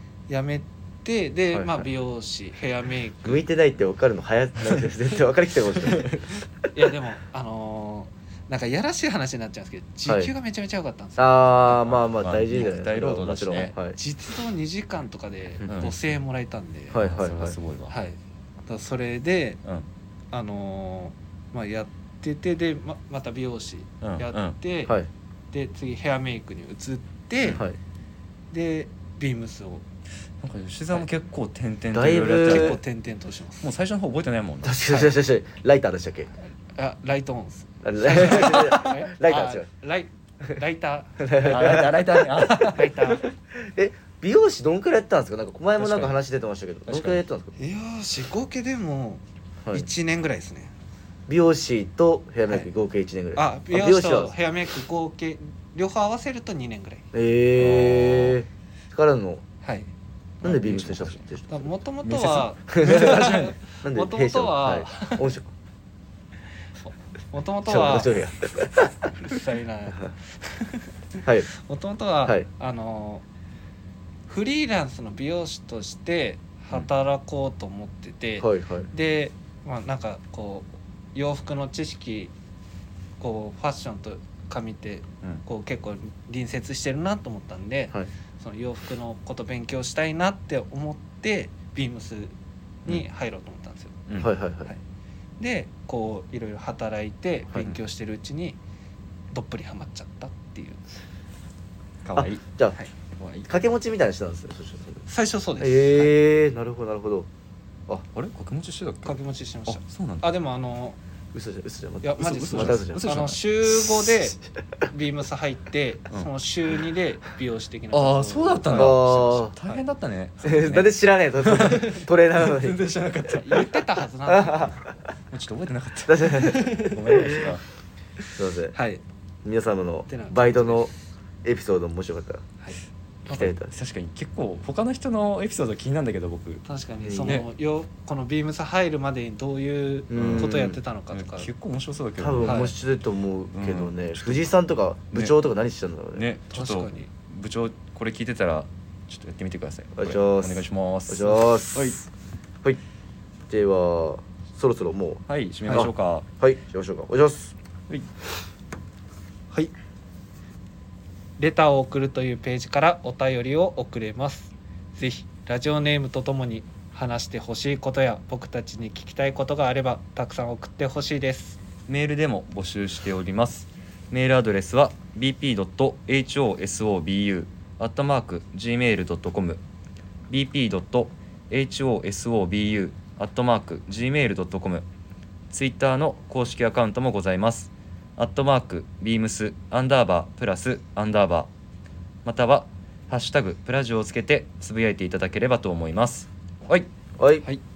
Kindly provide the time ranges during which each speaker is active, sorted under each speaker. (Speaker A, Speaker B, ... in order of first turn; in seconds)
Speaker A: 0.3-3.4, 6.7-12.0, 13.9-17.0, 17.9-19.6, 20.3-25.0, 25.5-27.6, 28.5-29.8, 32.4-33.7, 34.9-35.1, 36.8-41.9, 42.7-43.3, 47.6-50.7, 53.4-57.1, 59.6-59.9, 60.4-60.7, 61.5-65.3, 66.8-68.2, 69.0-73.2, 74.3-82.3, 83.2-92.3, 92.9-94.0, 95.4-98.6, 99.3-100.9, 105.1-106.2, 109.0-111.0, 112.0-119.8, 123.3-124.8, 126.4-127.0, 128.7-129.0, 130.1-130.9, 136.7-141.5, 142.4-142.7, 146.5-147.1, 161.4-171.6
Speaker B: 1.5-1.9, 3.2-6.2, 10.1-10.3, 11.2-14.0, 16.9-17.6, 31.9-32.8, 34.6-36.3, 37.8-39.7, 41.2-47.5, 51.3-54.3, 57.1-59.4, 60.4-61.7, 62.7-65.5, 67.7-69.1, 78.4-78.9, 94.2-94.7, 102.1-102.8, 103.5-105.1, 105.6-107.3, 111.3-113.1, 118.7-119.5, 120.4-122.8, 124.3-124.9, 126.1-127.5, 128.4-128.8, 129.4-130.9, 131.4-132.4, 133.3-133.7, 137.0-137.4, 140.1-140.8, 142.2-146.2, 150.0-152.0, 153.5-157.5, 197.2-197.4
Speaker C: 12.0-13.8, 15.6-15.9, 17.0-17.9, 24.0-24.6, 30.4-32.8, 33.6-34.8, 38.2-38.9, 41.5-43.1, 45.8-46.2, 46.9-47.2, 57.6-58.4, 60.4-61.2, 62.0-63.5, 94.1-94.3, 102.0-102.4, 103.2-103.5, 108.1-110.3, 112.2-113.4, 117.9-123.9, 125.3-127.6, 133.3-136.7, 140.2-142.7, 143.5-144.5, 146.2-152.0, 155.3-156.3, 171.9-179.6, 180.3-184.8, 185.5-191.5, 192.2-196.9